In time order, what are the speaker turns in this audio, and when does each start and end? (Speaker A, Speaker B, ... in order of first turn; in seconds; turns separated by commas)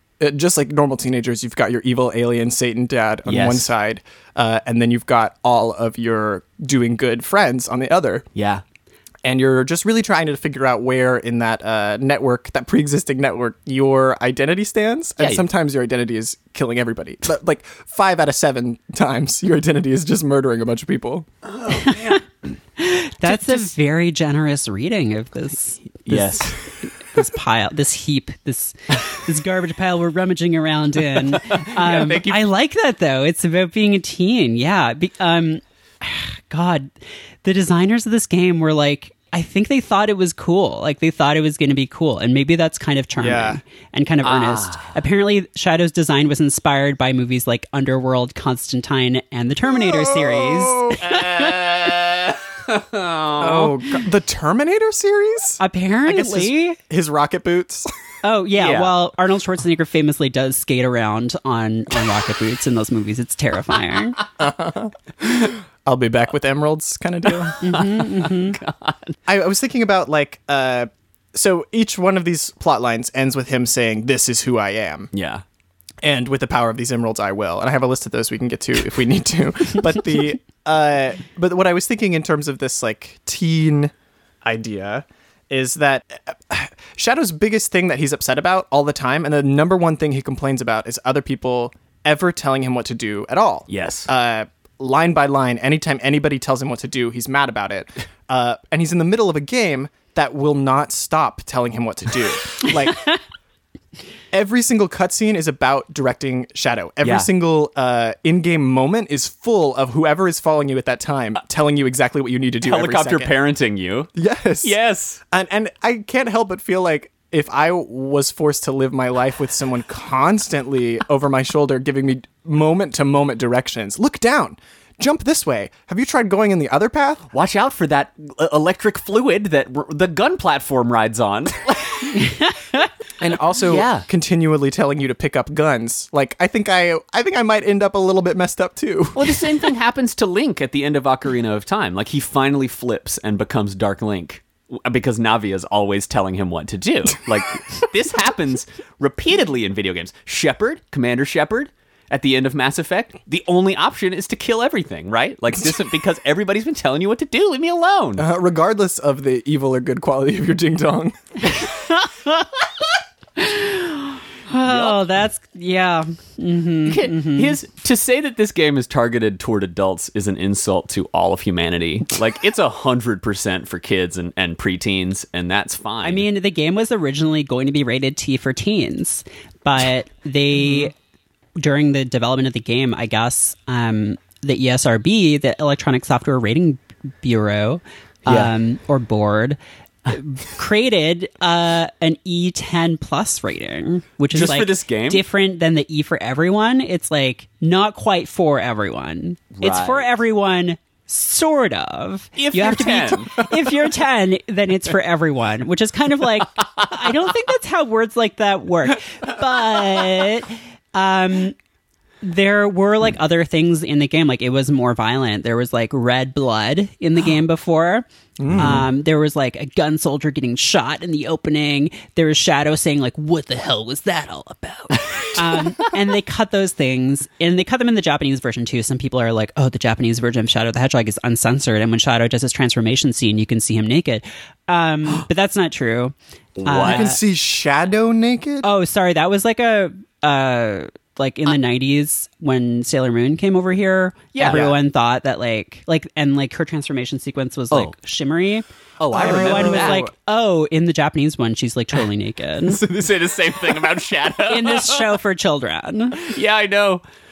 Speaker A: 0.2-8.3, Speaker B: 3.2-3.7, Speaker B: 8.3-8.6, Speaker A: 9.2-21.3, Speaker B: 15.2-15.4, Speaker B: 21.4-22.4, Speaker C: 21.8-22.2, Speaker C: 22.8-36.9, Speaker B: 23.3-23.7, Speaker B: 26.1-26.6, Speaker B: 31.5-32.5, Speaker C: 37.4-51.8, Speaker A: 43.2-43.6, Speaker B: 44.2-45.0, Speaker A: 49.9-51.0, Speaker B: 51.0-53.8, Speaker A: 53.4-57.9, Speaker C: 55.6-56.8, Speaker C: 58.2-64.2, Speaker B: 58.6-58.9, Speaker A: 64.4-67.6, Speaker B: 67.5-69.2, Speaker C: 67.6-68.6, Speaker A: 69.3-75.1, Speaker B: 75.1-75.4, Speaker A: 76.0-103.1, Speaker B: 93.7-94.1, Speaker A: 104.3-113.3, Speaker B: 107.0-107.3, Speaker B: 112.6-114.1, Speaker A: 114.2-114.8, Speaker B: 114.6-115.2, Speaker A: 115.3-127.3, Speaker B: 127.3-132.2, Speaker C: 132.2-132.9, Speaker A: 133.2-139.7, Speaker B: 133.7-134.1, Speaker B: 139.1-158.3, Speaker A: 158.2-161.2, Speaker C: 161.8-162.4, Speaker C: 163.4-167.6, Speaker B: 164.6-165.1, Speaker B: 166.9-176.2, Speaker C: 176.0-180.9, Speaker C: 181.6-211.6, Speaker B: 188.3-188.5, Speaker B: 194.3-195.2, Speaker B: 199.6-200.1, Speaker B: 202.4-203.6, Speaker C: 212.2-237.2, Speaker A: 218.4-218.9, Speaker B: 218.5-218.8, Speaker B: 236.6-237.1, Speaker A: 236.8-238.7, Speaker C: 238.6-252.8, Speaker B: 244.3-244.7, Speaker A: 244.5-244.8, Speaker B: 249.0-250.1, Speaker A: 249.1-250.1, Speaker B: 252.7-255.2, Speaker C: 254.5-256.2, Speaker B: 256.2-257.0